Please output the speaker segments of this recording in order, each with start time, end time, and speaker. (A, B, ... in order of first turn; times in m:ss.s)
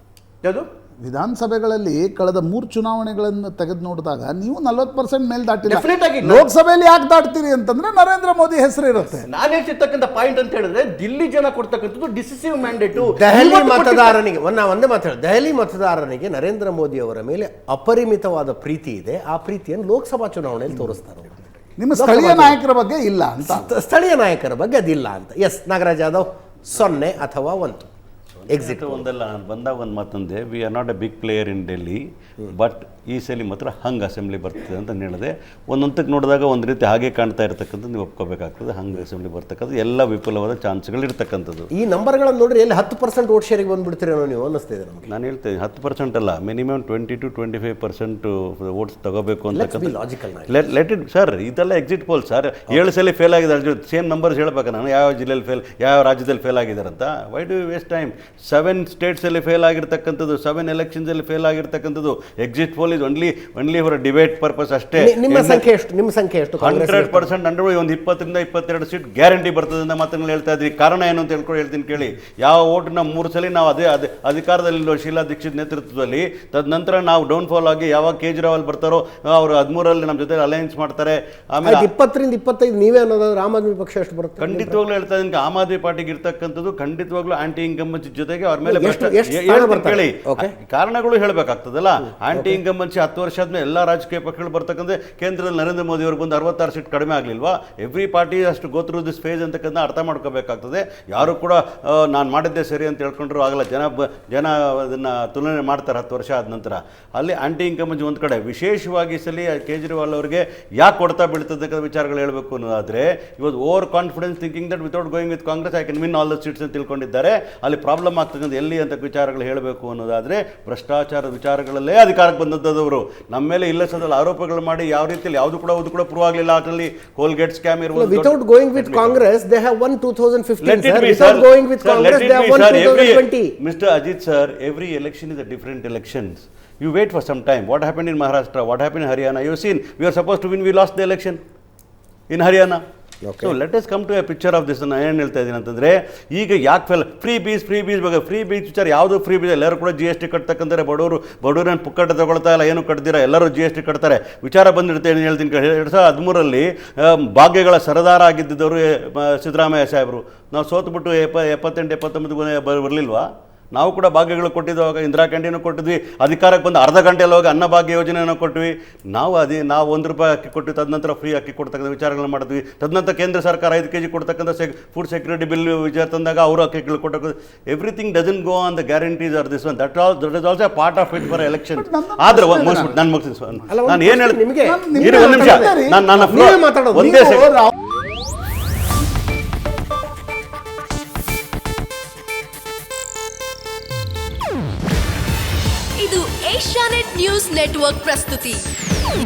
0:00.4-0:00.7 A
0:01.0-0:09.2 B
0:05.7-0:06.5 A
0:09.2-0:14.1 A
0:13.1-0:22.6 C
0:21.8-0:23.7 B
0:23.4-0:27.9 C
0:28.4-0:41.7 D
0:28.5-0:29.1 C
0:41.7-0:45.1 C
0:45.1-1:05.6 D
0:49.5-0:50.6 C
1:05.0-1:07.3 C
1:06.6-1:21.9 D
1:21.6-1:24.8 C
1:24.4-2:09.2 D
1:28.6-1:30.5 C
1:32.3-1:32.6 C
2:07.9-2:13.6 C
2:10.6-2:21.4 D
2:22.3-2:22.8 D
2:23.2-2:23.5 C
2:23.4-3:07.7 D
3:01.8-3:02.9 B
3:03.7-3:07.5 C
3:04.7-3:06.0 B
3:16.0-3:18.6 E